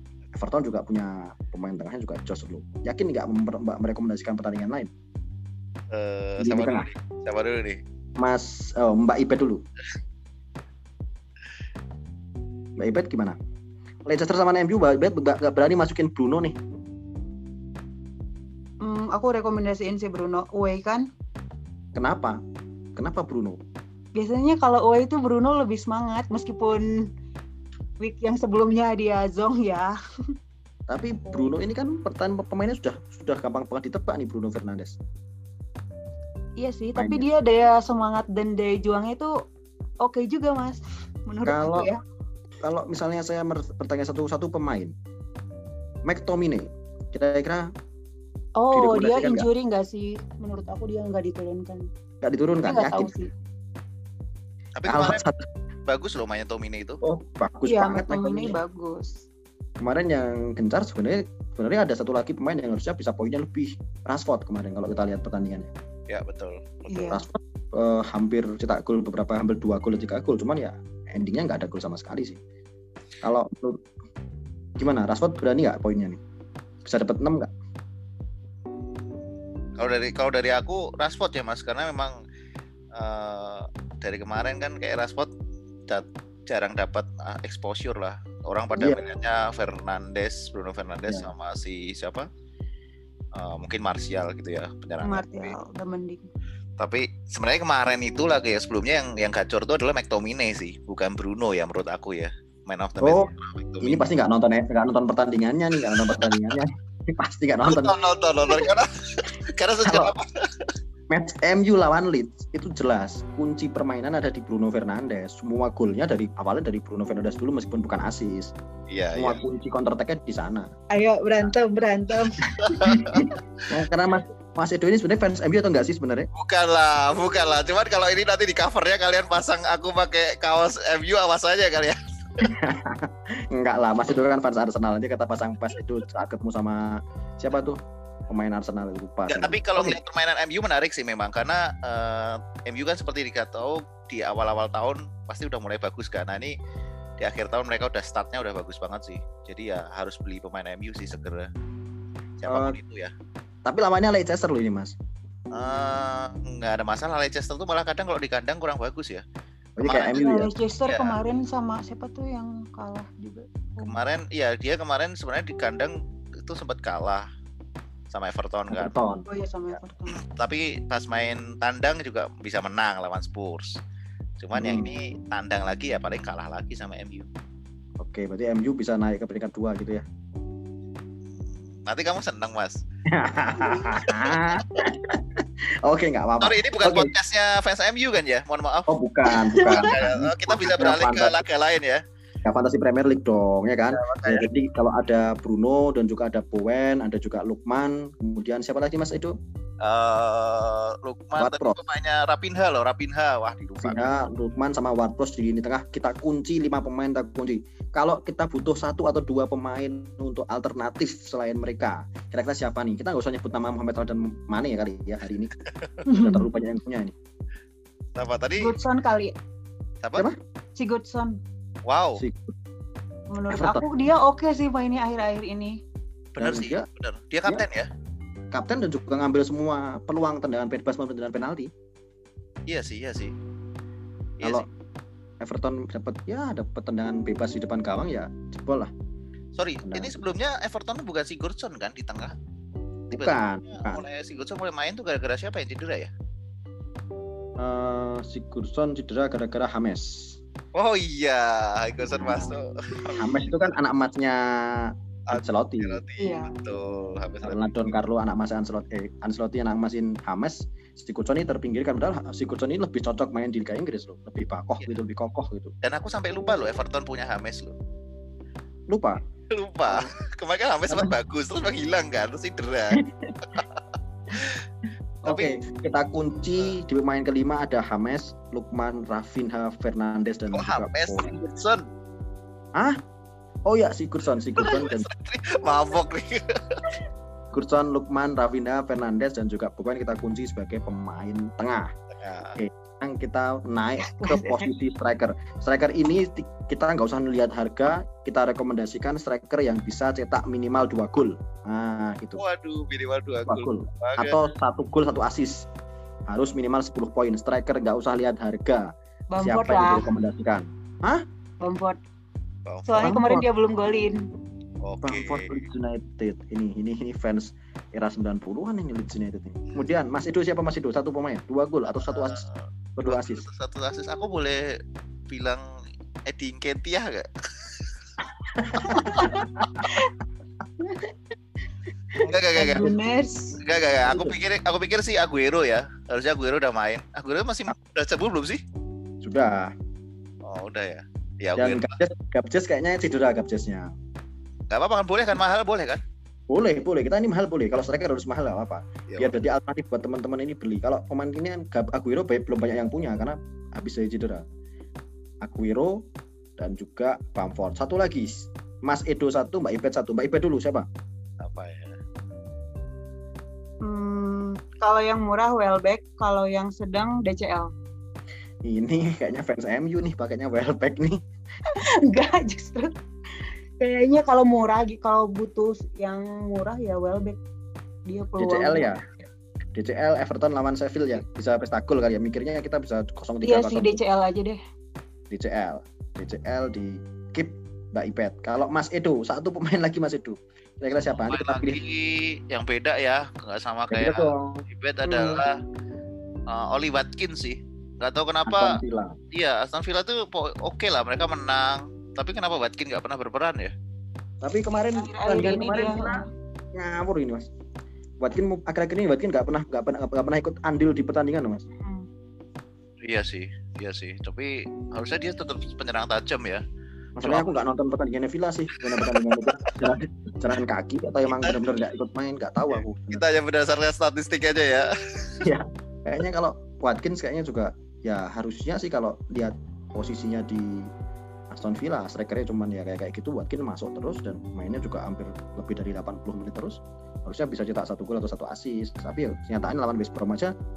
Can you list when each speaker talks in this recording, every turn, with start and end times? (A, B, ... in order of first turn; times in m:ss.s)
0:00.4-0:04.9 A
0:05.9-0:07.8 B
0:06.4-0:06.9 A
0:08.2-0:09.6 A
0:12.8-0:13.4 A
0:14.0-0:16.6 A
0:18.8-0:21.1 C
0:21.9-0:22.4 A
0:23.0-0:23.6 A
0:24.1-0:27.0 C
0:28.0-0:29.9 C
0:30.9-0:35.0 A
0:36.6-0:39.3 C
0:37.0-0:37.2 A
0:40.0-0:42.0 C
0:41.4-0:41.9 A
0:42.6-0:44.9 A
0:46.0-0:47.7 A
0:48.6-0:51.8 C
0:48.7-0:49.5 A
0:52.2-0:53.1 A
0:52.6-0:53.3 C
0:54.8-0:55.2 B
0:54.8-0:55.4 A
0:55.9-0:57.0 B
0:57.0-0:58.6 A
0:57.6-0:59.2 C
0:59.8-1:05.7 A
1:06.1-1:07.2 B
1:06.9-1:07.2 C
1:07.1-1:12.4 A
1:13.2-1:13.8 A
1:14.8-1:16.2 A
1:16.8-1:17.5 A
1:19.8-1:22.1 B
1:23.0-1:25.3 B
1:25.9-1:32.3 B
1:31.1-1:31.3 A
1:33.3-1:35.5 B
1:35.0-1:36.3 C
1:36.8-1:44.0 B
1:43.0-1:47.9 A
1:45.8-1:46.6 B
1:47.6-1:50.7 B
1:49.8-1:50.1 A
1:51.1-1:58.5 A
1:58.9-1:59.4 B
1:59.1-2:00.7 A
2:00.9-2:03.0 C
2:02.6-2:03.3 B
2:02.8-2:06.3 A
2:06.3-2:12.5 B
2:12.4-2:17.8 A
2:18.3-2:20.0 A
2:19.3-2:26.5 B
2:27.2-2:31.5 B
2:32.4-2:33.1 B
2:32.5-2:32.8 A
2:33.6-2:34.9 A
2:35.5-2:39.2 B
2:39.8-2:40.5 A
2:39.8-2:40.2 B
2:40.1-2:44.0 C
2:40.9-2:41.2 B
2:43.8-2:47.2 B
2:48.1-2:48.9 B
2:48.7-2:49.3 A
2:49.2-2:50.2 C
2:50.1-2:53.8 B
2:54.4-2:57.3 B
2:54.5-2:54.9 A
2:58.0-3:00.0 A
3:01.3-3:02.8 B
3:03.1-3:07.1 A
3:03.9-3:04.6 B
3:06.4-3:08.9 B
3:08.9-3:11.4 A
3:09.3-3:09.9 C
3:09.5-3:12.0 B
3:12.4-3:19.3 A
3:13.9-3:14.5 B
3:19.8-3:24.2 B
3:21.4-3:21.8 A
3:23.8-3:35.5 A
3:36.0-3:36.4 C
3:36.1-3:37.1 A
3:38.2-3:38.8 B
3:38.6-3:39.3 C
3:40.0-3:40.3 B
3:40.8-3:41.4 C
3:41.8-3:42.2 B
3:42.2-3:42.5 A
3:43.3-3:45.8 C
3:43.5-3:43.8 A
3:46.3-3:47.9 B
3:46.4-3:46.8 A
3:48.5-3:51.7 A
3:52.7-3:53.3 B
3:54.4-3:54.6 A
3:55.4-3:58.9 A
3:59.5-4:02.3 B
3:59.8-4:00.2 A
4:03.1-4:04.0 A
4:03.1-4:06.1 B
4:07.6-4:10.4 A
4:10.7-4:13.2 B
4:12.0-4:16.0 A
4:15.3-4:17.7 B
4:16.2-4:16.5 C
4:17.4-4:25.7 A
4:25.8-4:27.8 B
4:28.9-4:29.2 A
4:29.5-4:33.8 B
4:32.9-4:33.6 A
4:34.3-4:34.6 B
4:35.2-4:41.3 A
4:35.2-4:35.6 B
4:40.5-4:41.8 B
4:43.6-4:45.1 A
4:44.6-4:46.9 B
4:47.5-4:51.9 A
4:52.2-4:52.6 B
4:52.6-5:02.4 A
4:54.0-4:54.7 C
5:02.4-5:04.5 B
5:03.4-5:05.6 A
5:06.3-5:08.9 A
5:09.3-5:10.1 C
5:09.4-5:11.2 A
5:11.6-5:12.0 C
5:12.6-5:13.1 B
5:12.8-5:14.2 C
5:13.0-5:13.4 A
5:14.8-5:15.6 B
5:15.0-5:22.4 A
5:22.1-5:24.6 B
5:23.0-5:23.4 A
5:25.3-5:25.6 B
5:26.3-5:27.9 B
5:28.5-5:29.8 A
5:28.8-5:30.1 C
5:30.8-5:31.1 C
5:32.2-5:32.9 B
5:32.2-5:33.6 C
5:33.6-5:38.6 B
5:34.0-5:34.4 A
5:39.2-5:39.7 A
5:40.4-5:41.9 B
5:41.6-5:43.9 A
5:44.7-5:46.0 B
5:46.5-5:54.4 A
5:55.4-5:56.0 A
5:56.6-6:00.9 A
6:01.4-6:02.0 B
6:03.8-6:07.7 C
6:08.6-6:11.2 A
6:11.7-6:12.9 C
6:13.8-6:17.4 C
6:18.1-6:18.9 C
6:18.4-6:19.1 A
6:19.7-6:24.0 A
6:23.4-6:24.6 C
6:25.3-6:31.8 A
6:31.2-6:35.5 B
6:33.9-6:34.6 A
6:35.1-6:35.4 C
6:36.5-6:38.8 B
6:38.4-6:39.2 A
6:39.3-6:43.7 B
6:44.4-6:47.5 A
6:44.9-6:46.2 C
6:48.2-6:51.6 A
6:51.8-6:52.1 C
6:53.0-6:56.6 B
6:57.2-7:03.2 A
6:57.2-6:57.5 B
6:58.9-6:59.7 B
7:01.3-7:01.6 B
7:03.1-7:05.4 B
7:05.4-7:10.9 A
7:11.5-7:20.5 A